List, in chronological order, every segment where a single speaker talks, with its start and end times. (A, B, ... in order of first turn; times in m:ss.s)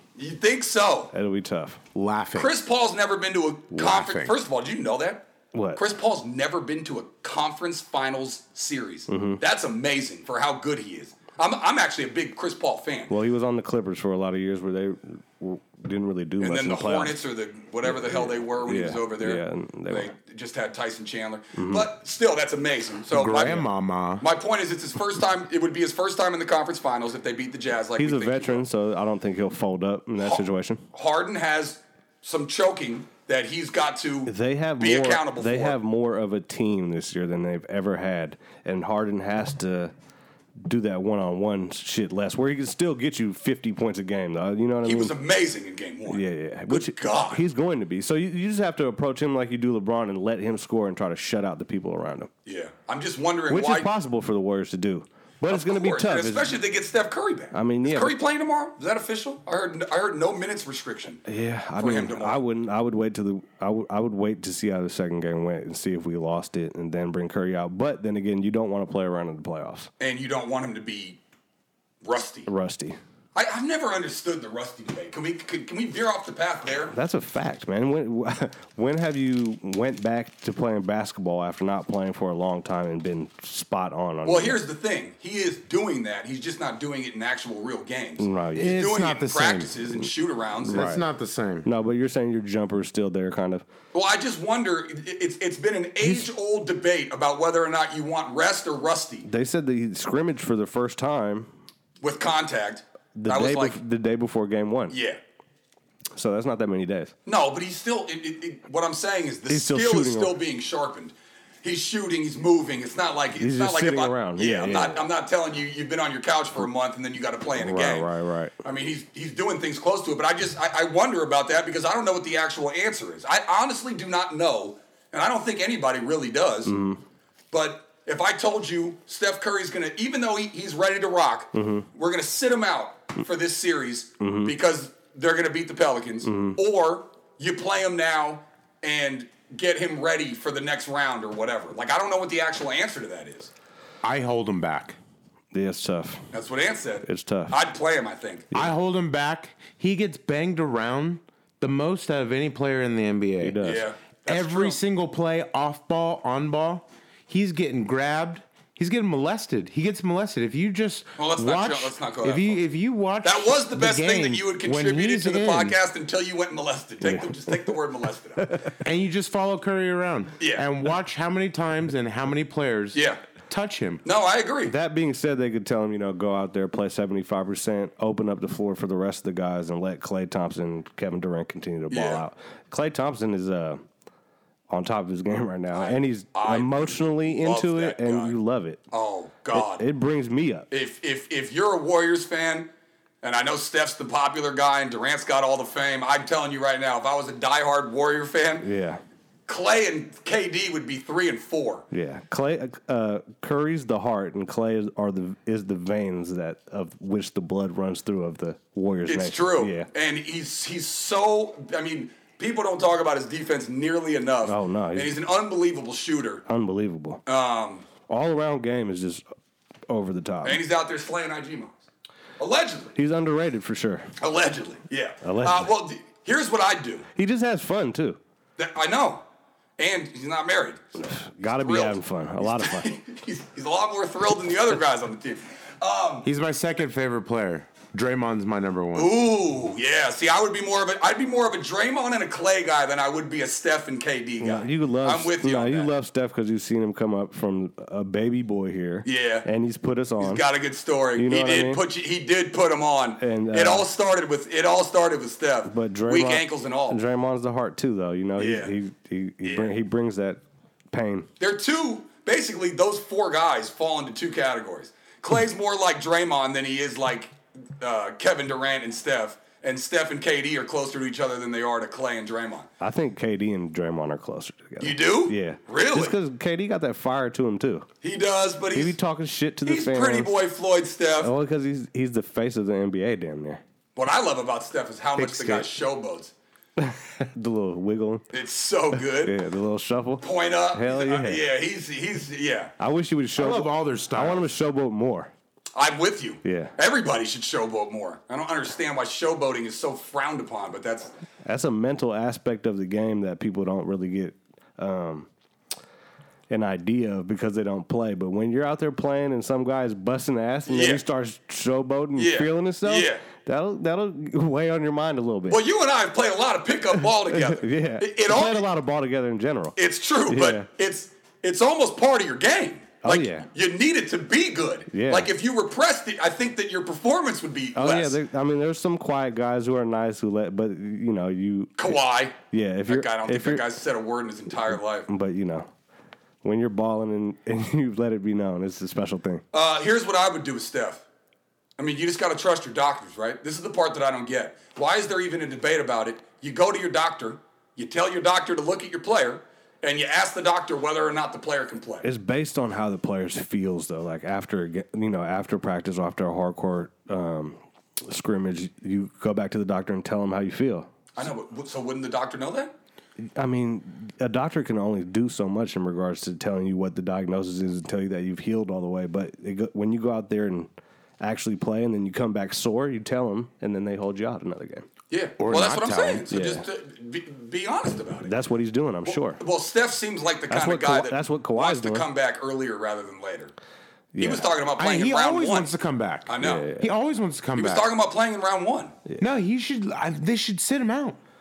0:00.2-0:01.1 A
0:01.1-0:01.8 B
0:02.0-0:02.5 C
0:02.4-0:05.2 A
0:03.7-0:04.4 C
0:05.5-0:05.8 B
0:05.8-0:13.1 A
0:09.1-0:09.4 B
0:13.1-0:17.2 B
0:16.4-0:23.7 A
0:17.8-0:20.1 B
0:21.6-0:21.9 B
0:23.1-0:24.2 C
0:24.2-0:28.7 A
0:28.0-0:30.8 B
0:30.2-0:35.8 A
0:34.3-0:39.9 B
0:40.6-0:45.2 B
0:44.8-0:47.4 A
0:46.1-0:52.3 B
0:52.4-0:53.9 A
0:53.5-0:56.6 B
0:55.5-1:01.2 A
0:57.5-0:58.2 B
1:01.3-1:09.9 B
1:01.8-1:02.5 A
1:10.0-1:11.2 A
1:12.0-1:12.5 A
1:12.5-1:13.0 B
1:13.4-1:16.9 A
1:16.8-1:24.6 B
1:24.2-1:30.9 A
1:28.2-1:28.9 B
1:28.6-1:29.8 C
1:30.0-1:31.0 B
1:30.7-1:31.7 C
1:31.6-1:33.7 B
1:33.9-1:39.3 A
1:36.0-1:36.3 B
1:39.2-1:41.5 B
1:42.0-1:43.8 A
1:43.2-1:45.0 B
1:44.9-1:45.2 A
1:46.2-1:47.1 B
1:47.3-1:58.1 A
1:49.5-1:50.4 B
1:53.4-1:55.0 B
1:57.6-1:58.6 B
1:58.6-2:06.7 A
2:06.6-2:07.0 B
2:07.5-2:23.5 A
2:11.5-2:11.9 B
2:14.2-2:14.6 B
2:16.2-2:16.6 B
2:24.0-2:25.0 C
2:25.5-2:26.3 B
2:26.3-2:28.5 A
2:27.0-2:27.6 B
2:28.5-2:33.6 C
2:33.4-2:33.9 B
2:33.6-2:34.8 A
2:34.3-2:45.8 C
2:41.2-2:42.6 A
2:43.2-2:48.6 A
2:47.0-2:47.8 B
2:48.4-2:48.8 B
2:48.8-2:54.0 C
2:50.4-2:50.6 A
2:52.9-2:53.2 A
2:54.0-2:54.7 A
2:54.6-3:03.8 B
3:01.9-3:02.2 A
3:04.7-3:08.8 B
3:05.7-3:08.4 A
3:08.9-3:09.8 A
3:09.5-3:10.7 B
3:10.7-3:12.7 A
3:13.2-3:18.7 A
3:18.6-3:19.0 B
3:19.5-3:21.8 A
3:21.9-3:29.9 B
3:29.1-3:36.4 A
3:34.4-3:35.2 B
3:36.5-3:37.2 B
3:37.3-3:37.9 A
3:38.1-3:39.2 B
3:39.9-3:40.6 B
3:40.4-3:41.9 A
3:42.4-3:42.9 A
3:43.0-3:44.1 B
3:44.2-3:47.1 A
3:45.2-3:45.7 B
3:47.2-3:48.2 B
3:48.6-3:49.2 A
3:49.8-3:50.9 A
3:51.0-3:52.9 B
3:51.6-3:56.3 A
3:56.2-3:59.1 C
3:59.0-4:05.9 A
4:04.4-4:10.5 B
4:09.0-4:09.5 A
4:10.2-4:17.0 A
4:11.2-4:11.8 B
4:13.2-4:13.9 B
4:15.7-4:20.4 B
4:18.4-4:18.7 A
4:19.4-4:19.8 A
4:20.9-4:21.3 B
4:21.4-4:32.7 A
4:32.8-4:37.9 B
4:34.8-4:36.2 A
4:38.0-4:39.0 A
4:38.7-4:40.4 B
4:39.6-4:41.3 A
4:41.2-4:43.6 B
4:44.0-4:46.3 A
4:45.2-4:45.7 C
4:46.8-4:48.3 B
4:48.3-4:49.4 A
4:48.9-4:51.5 B
4:50.2-4:52.7 A
4:52.8-4:55.3 B
4:53.4-4:54.5 C
4:55.8-5:01.1 A
4:56.4-4:56.7 B
5:01.4-5:05.3 B
5:06.5-5:15.6 B
5:10.7-5:11.0 A
5:12.2-5:13.2 A
5:15.5-5:18.7 A
5:17.2-5:20.7 B
5:19.8-5:28.2 A
5:23.0-5:23.5 B
5:24.9-5:25.3 B
5:27.8-5:32.0 B
5:31.8-5:32.4 A
5:32.5-5:33.6 B
5:32.9-5:35.1 A
5:34.5-5:35.7 B
5:36.4-5:39.4 B
5:39.5-5:41.0 A
5:41.8-5:52.1 A
5:52.0-6:00.9 B
6:01.2-6:02.7 A
6:03.2-6:14.9 B
6:15.1-6:18.3 A
6:15.4-6:16.3 C
6:16.3-6:16.7 B
6:18.2-6:19.4 B
6:19.1-6:23.5 A
6:20.5-6:22.1 B
6:24.1-6:24.5 B
6:24.2-6:25.7 A
6:24.8-6:27.9 C
6:26.3-6:26.7 A
6:26.4-6:26.9 B
6:27.6-6:28.9 A
6:29.2-6:31.2 C